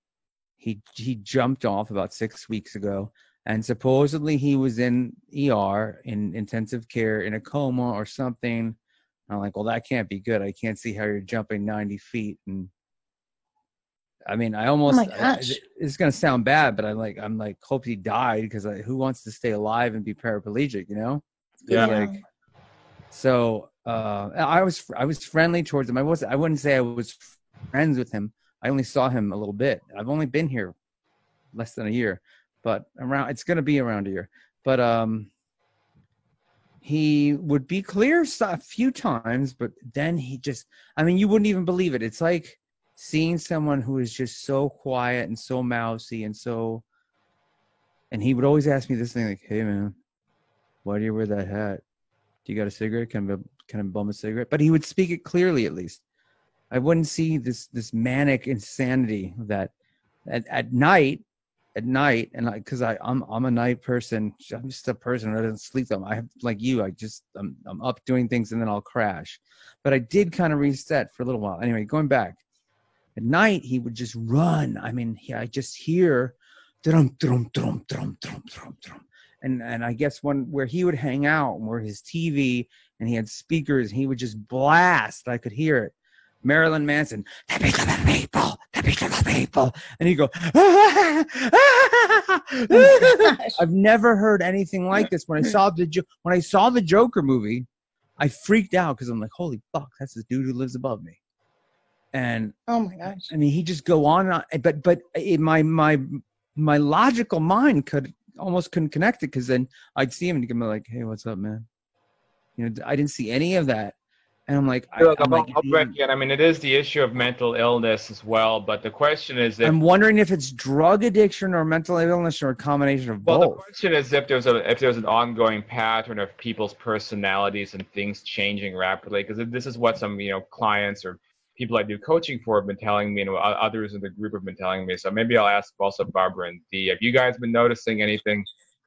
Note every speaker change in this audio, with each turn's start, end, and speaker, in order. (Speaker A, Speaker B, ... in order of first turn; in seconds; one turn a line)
Speaker A: 0.6-8.8
Speaker A: 9.3-12.7
Speaker A: 14.2-22.1
Speaker B: 14.9-15.6
Speaker B: 21.7-22.1
Speaker C: 21.7-21.9
Speaker A: 23.1-30.7
Speaker A: 31.5-35.3
Speaker A: 36.8-46.8
Speaker A: 48.1-50.0
Speaker A: 50.8-51.8
Speaker A: 52.5-56.0
Speaker A: 56.7-59.7
Speaker A: 60.2-61.2
Speaker A: 61.7-72.4
Speaker A: 73.2-97.7
Speaker B: 92.7-93.6
Speaker A: 98.2-101.2
Speaker A: 102.1-102.5
Speaker B: 102.7-103.3
Speaker A: 103.3-111.7
Speaker A: 112.6-113.9
Speaker A: 114.5-115.9
Speaker C: 115.0-119.7
Speaker A: 119.6-123.6
Speaker C: 123.2-138.4